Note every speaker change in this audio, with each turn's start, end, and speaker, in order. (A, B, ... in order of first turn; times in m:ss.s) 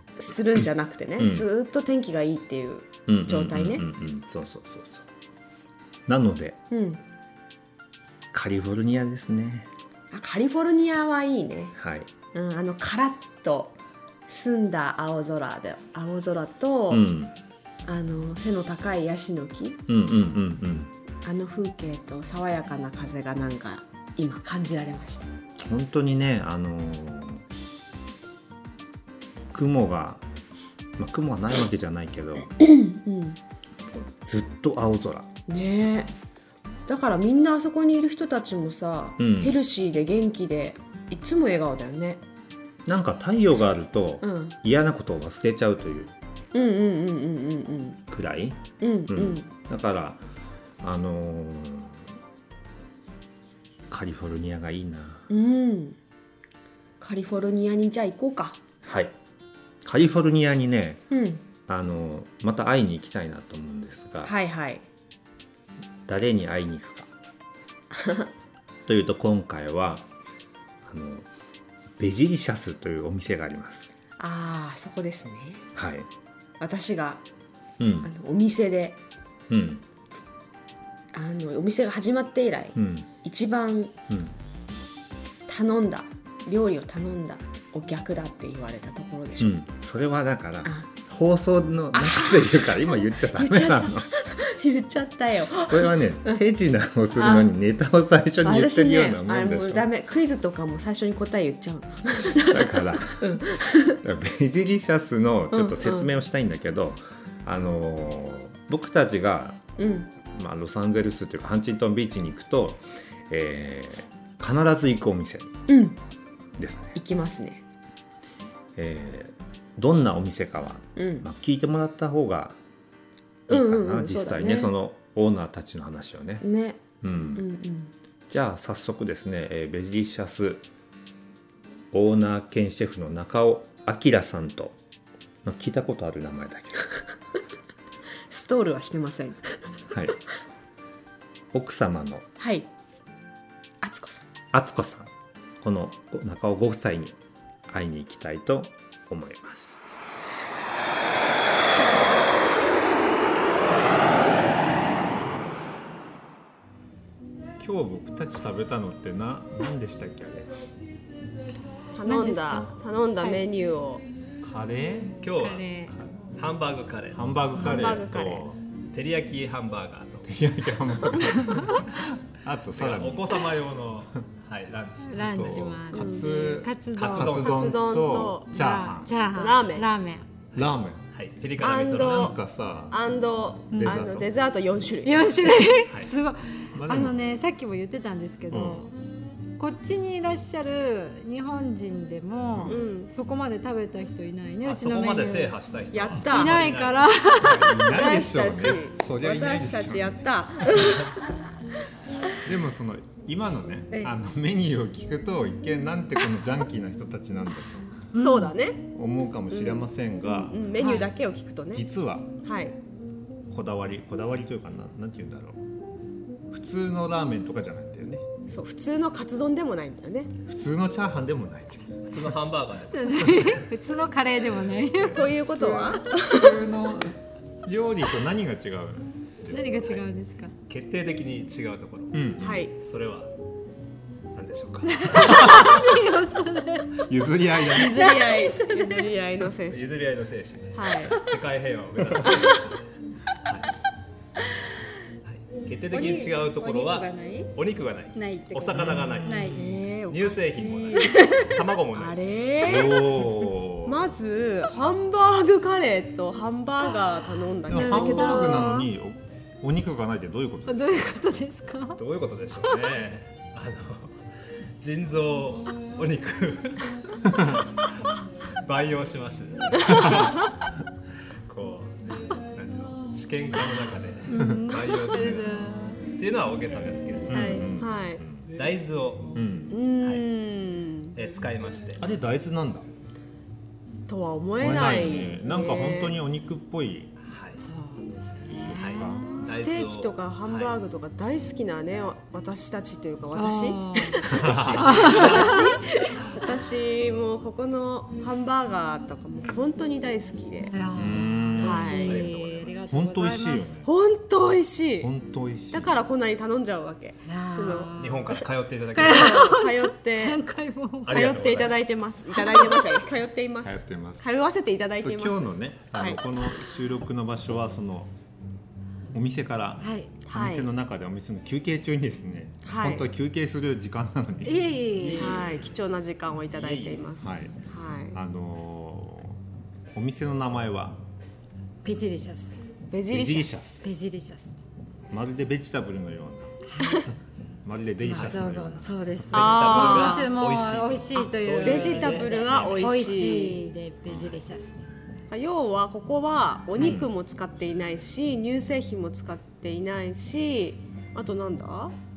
0:00.2-0:03.8 A
0:01.2-0:01.4 B
0:03.1-0:05.0 B
0:06.1-0:06.6 B
0:06.7-0:07.0 A
0:08.3-0:09.7 B
0:10.1-0:11.7 A
0:11.7-0:12.1 B
0:12.3-0:13.7 A
0:14.3-0:17.0 A
0:16.9-0:17.3 B
0:17.8-0:19.8 A
0:19.9-0:20.9 B
0:21.2-0:25.3 A
0:25.6-0:27.4 B
0:29.5-0:30.2 B
0:31.0-0:32.5 B
0:32.6-0:33.4 A
0:34.2-0:35.3 B
0:35.5-0:36.1 A
0:36.9-0:42.2 A
0:39.2-0:39.5 B
0:42.8-0:46.1 B
0:44.2-0:44.5 A
0:46.5-0:48.0 A
0:48.1-0:50.2 B
0:48.8-0:49.5 A
0:50.8-0:52.1 B
0:53.9-0:55.3 B
0:55.3-0:56.0 A
0:57.0-0:58.6 A
0:58.8-0:59.1 B
0:59.8-1:01.0 B
1:01.1-1:01.4 A
1:01.7-1:04.3 B
1:04.2-1:04.8 A
1:06.1-1:07.1 B
1:07.9-1:08.3 A
1:08.8-1:10.0 B
1:10.8-1:11.3 B
1:12.0-1:13.9 B
1:14.2-1:15.6 A
1:15.7-1:16.1 B
1:16.6-1:17.2 A
1:17.8-1:18.1 B
1:18.0-1:19.0 A
1:19.5-1:19.8 B
1:21.1-1:23.9 A
1:22.8-1:23.1 B
1:24.1-1:24.3 B
1:25.5-1:29.6 A
1:29.4-1:34.2 B
1:31.9-1:36.4 A
1:35.6-1:39.9 B
1:37.2-1:37.5 A
1:38.4-1:44.0 A
1:42.5-1:49.6 B
1:45.5-1:46.1 A
1:49.8-1:50.1 A
1:50.3-1:55.5 B
1:55.7-1:56.0 A
1:56.6-1:56.9 B
1:56.9-1:57.6 A
1:58.8-2:02.6 B
2:01.0-2:01.2 A
2:03.5-2:04.7 A
2:03.5-2:06.4 B
2:06.4-2:06.8 A
2:07.0-2:07.4 B
2:07.3-2:07.9 A
2:08.3-2:10.6 B
2:11.9-2:14.8 B
2:15.4-2:17.0 B
2:18.3-2:19.6 A
2:21.5-2:22.2 B
2:22.4-2:22.7 A
2:23.8-2:24.2 A
2:24.5-2:27.2 B
2:27.7-2:29.8 B
2:37.6-2:40.5 B
2:41.9-2:44.0 A
2:42.0-2:43.5 C
2:44.4-2:45.3 B
2:45.2-2:45.8 D
2:45.4-2:45.9 C
2:45.9-2:46.3 B
2:46.4-2:47.3 D
2:47.1-2:48.5 B
2:47.6-2:48.6 A
2:48.9-2:50.3 D
2:50.2-2:53.5 B
2:51.5-2:51.8 C
2:52.7-2:55.7 D
2:55.0-2:57.6 C
2:55.2-2:59.1 B
2:56.9-2:57.8 D
2:57.3-2:58.5 A
2:58.5-3:00.2 C
2:59.3-2:59.9 A
3:00.5-3:01.0 B
3:01.1-3:02.3 D
3:01.6-3:02.4 A
3:01.8-3:03.0 B
3:02.9-3:05.7 A
3:03.7-3:04.0 C
3:03.7-3:04.3 B
3:05.0-3:08.9 C
3:06.7-3:07.2 B
3:08.5-3:08.9 B
3:09.6-3:15.5 C
3:12.5-3:12.8 B
3:12.6-3:13.1 A
3:14.6-3:17.1 D
3:15.9-3:16.6 A
3:16.3-3:18.1 C
3:17.4-3:20.8 B
3:17.9-3:21.2 A
3:22.4-3:28.1 B
3:28.1-3:28.5 C
3:28.2-3:28.8 A
3:28.9-3:31.1 B
3:29.5-3:29.9 A
3:30.5-3:31.8 A
3:30.8-3:31.1 C
3:31.7-3:32.3 B
3:32.4-3:32.8 A
3:33.5-3:35.6 B
3:36.5-3:38.2 B
3:38.5-3:40.3 A
3:40.4-3:42.4 B
3:42.1-3:43.7 D
3:42.9-3:46.0 C
3:45.1-3:46.5 A
3:45.6-3:50.0 B
3:49.5-3:50.5 C
3:50.7-3:53.3 D
3:52.1-3:52.6 B
3:52.4-3:52.7 A
3:54.3-3:55.8 D
3:54.9-3:59.1 C
3:55.2-3:55.7 B
3:57.1-3:58.1 B
3:57.7-3:59.9 A
3:59.7-4:03.7 D
4:00.7-4:01.2 A
4:02.2-4:02.6 C
4:05.2-4:12.2 D
4:05.9-4:07.5 C
4:08.2-4:09.6 C
4:08.7-4:09.4 B
4:09.5-4:11.3 A
4:11.0-4:11.5 C
4:11.9-4:13.3 A
4:12.6-4:14.0 B
4:13.8-4:18.6 A
4:17.7-4:21.0 B
4:17.7-4:18.9 C
4:20.7-4:22.0 C
4:22.0-4:24.2 D
4:22.6-4:22.9 C
4:24.8-4:28.1 D
4:27.3-4:27.6 B
4:28.6-4:30.4 D
4:29.8-4:30.4 B
4:31.5-4:37.7 D
4:34.3-4:36.0 C
4:37.3-4:38.5 B
4:37.3-4:37.7 C
4:37.8-4:38.2 A
4:38.5-4:39.4 D
4:39.3-4:39.8 B
4:39.7-4:41.1 A
4:40.0-4:40.2 D
4:41.1-4:42.1 D
4:42.0-4:42.8 B
4:44.1-4:46.2 A
4:44.6-4:47.1 B
4:47.2-4:47.7 D
4:47.6-4:48.6 A
4:48.5-4:49.4 B
4:48.5-4:49.4 C
4:48.6-4:50.8 D
4:49.3-5:00.7 A
4:53.3-4:54.2 C
4:54.3-4:56.3 D
4:54.3-4:55.1 B
4:54.8-4:55.8 C
5:00.7-5:03.8 C
5:00.9-5:02.0 B
5:01.6-5:02.2 A
5:01.7-5:02.8 D
5:02.9-5:03.9 B
5:03.8-5:05.1 A
5:05.0-5:05.9 B
5:05.7-5:07.9 A
5:07.2-5:08.4 C
5:07.9-5:09.6 D
5:08.9-5:11.5 C
5:09.0-5:10.4 A
5:11.0-5:11.8 D
5:11.1-5:16.2 A
5:12.3-5:13.0 C
5:13.6-5:14.2 B
5:15.0-5:18.1 B
5:19.1-5:25.4 B
5:19.8-5:20.1 C
5:20.2-5:20.7 A
5:22.6-5:23.1 A
5:24.4-5:25.4 C
5:25.0-5:25.7 D
5:25.2-5:28.2 A
5:26.5-5:27.0 D
5:27.2-5:27.6 B
5:28.1-5:29.4 B
5:29.9-5:31.0 B
5:31.8-5:32.6 C
5:32.9-5:33.6 A
5:33.1-5:33.9 B
5:33.8-5:34.6 C
5:35.1-5:36.6 B
5:36.7-5:37.1 C
5:37.6-5:39.0 B
5:38.0-5:44.8 C
5:39.3-5:43.1 D
5:39.3-5:40.3 A
5:41.6-5:43.6 A
5:44.1-5:44.4 B
5:45.3-5:51.9 A
5:46.8-5:47.1 B